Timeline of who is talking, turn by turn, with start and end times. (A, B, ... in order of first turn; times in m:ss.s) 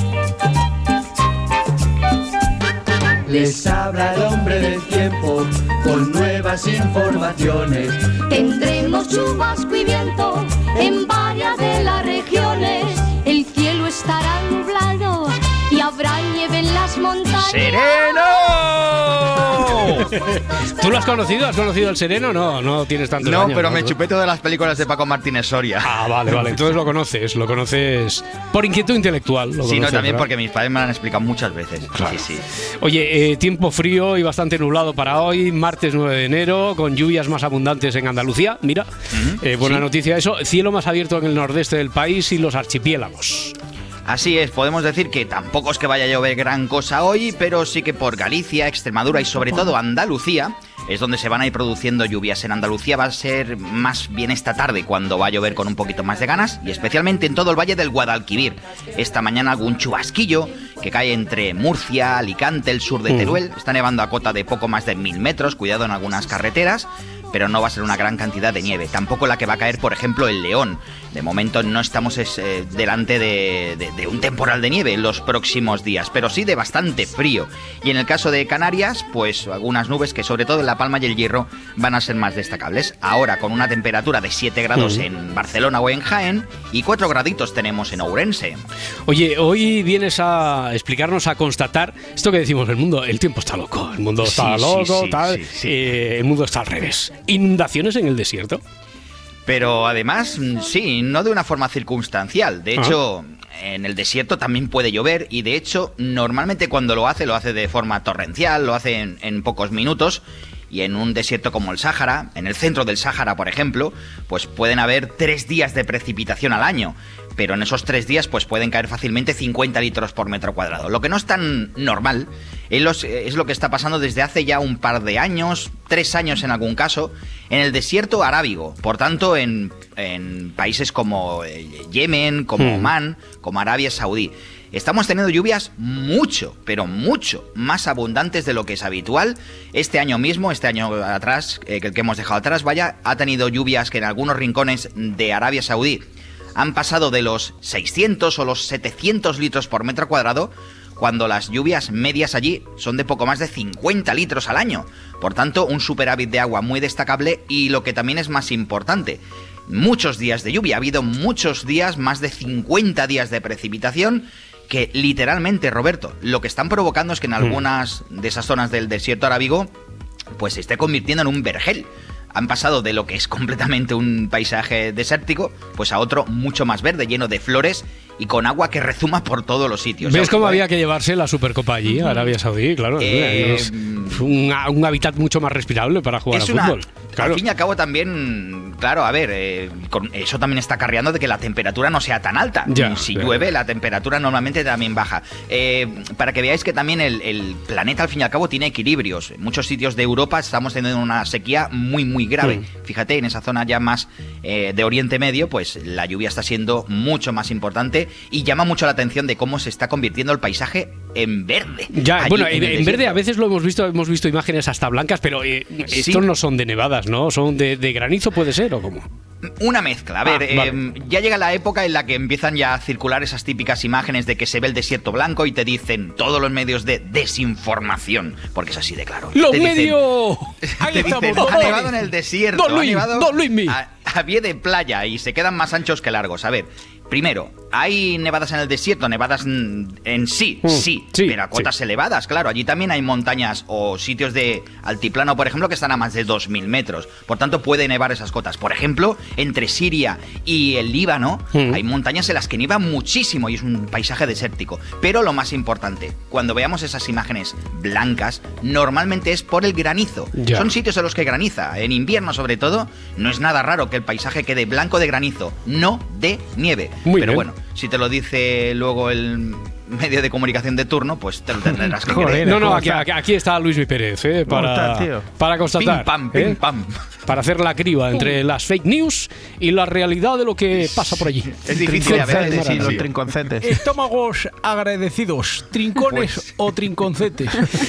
0:03.3-0:08.0 A
0:08.3-0:17.9 B
0:17.4-0:20.1 C
0:19.9-0:24.0 D
0:23.2-0:26.6 C
0:25.8-0:30.3 D
0:29.7-0:32.4 C
0:31.9-0:32.2 D
0:32.8-0:38.9 D
0:39.1-0:39.8 C
0:39.4-0:43.6 D
0:44.1-1:28.6 C
1:03.1-1:03.4 D
1:24.8-1:25.0 D
1:29.1-1:38.6 D
1:34.2-1:35.7 C
1:39.5-2:26.0 C
2:12.6-2:12.9 D
2:26.6-2:49.7 C
2:50.4-3:00.6 C
3:00.1-3:07.4 D
3:03.0-3:04.2 C
3:06.3-3:33.2 C
3:12.7-3:13.4 D
3:31.9-3:39.1 D
3:35.9-3:36.2 C
3:39.6-3:50.0 C
3:40.3-3:40.7 D
3:49.3-3:51.9 D
3:50.7-4:32.8 C
3:50.8-3:51.9 E
3:52.5-3:53.8 D
4:00.6-4:01.7 D
4:20.4-4:20.7 D
4:27.1-4:27.4 D
4:31.9-4:33.0 F
4:32.4-4:36.6 D
4:34.5-4:35.3 F
4:35.8-4:37.0 C
4:37.3-4:43.1 D
4:41.7-4:43.0 C
4:41.7-4:43.6 F
4:43.6-4:47.6 E